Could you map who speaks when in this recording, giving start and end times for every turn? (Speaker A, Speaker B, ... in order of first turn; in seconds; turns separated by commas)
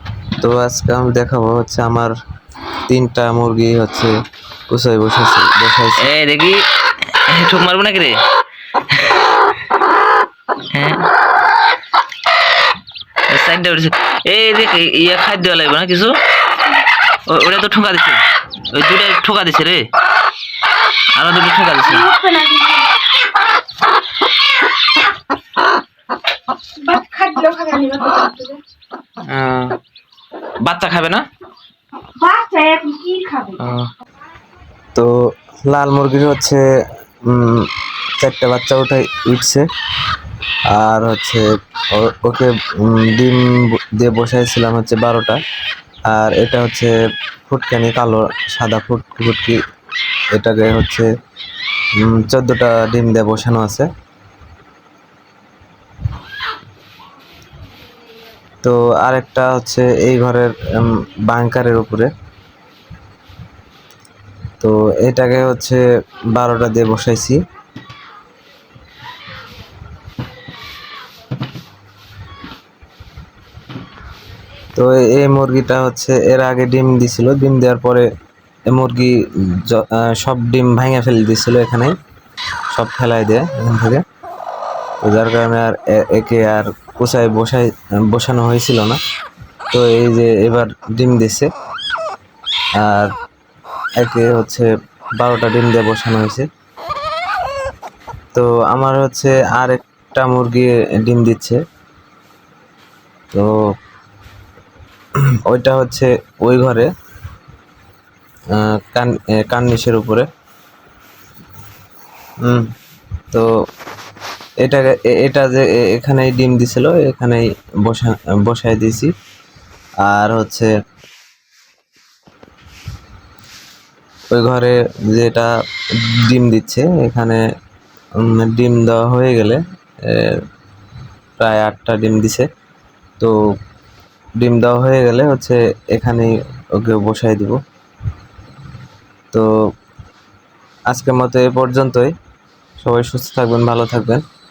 Speaker A: 0.4-2.1, Speaker A: 2.9-4.1, Speaker A: 4.7-6.0, Speaker B: 6.0-6.6, Speaker B: 7.3-8.1, Speaker B: 10.7-11.0, Speaker B: 13.3-16.1, Speaker B: 17.3-18.2, Speaker B: 18.7-19.8, Speaker B: 21.1-22.1, Speaker C: 21.8-22.9, Speaker C: 26.8-28.6, Speaker B: 29.3-29.7, Speaker B: 30.6-31.2, Speaker C: 32.1-33.7, Speaker B: 33.6-33.9, Speaker A: 35.6-36.6, Speaker A: 37.3-37.6, Speaker A: 38.2-39.6, Speaker A: 40.7-43.4, Speaker A: 44.0-45.4, Speaker A: 46.1-46.9, Speaker A: 47.5-49.6, Speaker A: 50.3-51.1, Speaker A: 52.0-53.9, Speaker A: 58.6-62.1, Speaker A: 64.6-65.8, Speaker A: 66.3-67.4, Speaker A: 74.8-78.0, Speaker A: 78.7-81.9, Speaker A: 82.7-84.0, Speaker A: 85.0-89.0, Speaker A: 89.7-91.5, Speaker A: 92.8-93.1, Speaker A: 94.0-96.5, Speaker A: 98.3-101.6, Speaker A: 105.5-106.9, Speaker A: 108.5-110.3, Speaker A: 114.6-119.1, Speaker A: 120.0-120.7, Speaker A: 124.3-125.5, Speaker A: 126.2-127.4, Speaker A: 128.2-129.6, Speaker A: 130.1-130.3, Speaker A: 131.4-132.5, Speaker A: 134.4-137.6, Speaker A: 140.9-142.1, Speaker A: 142.8-144.2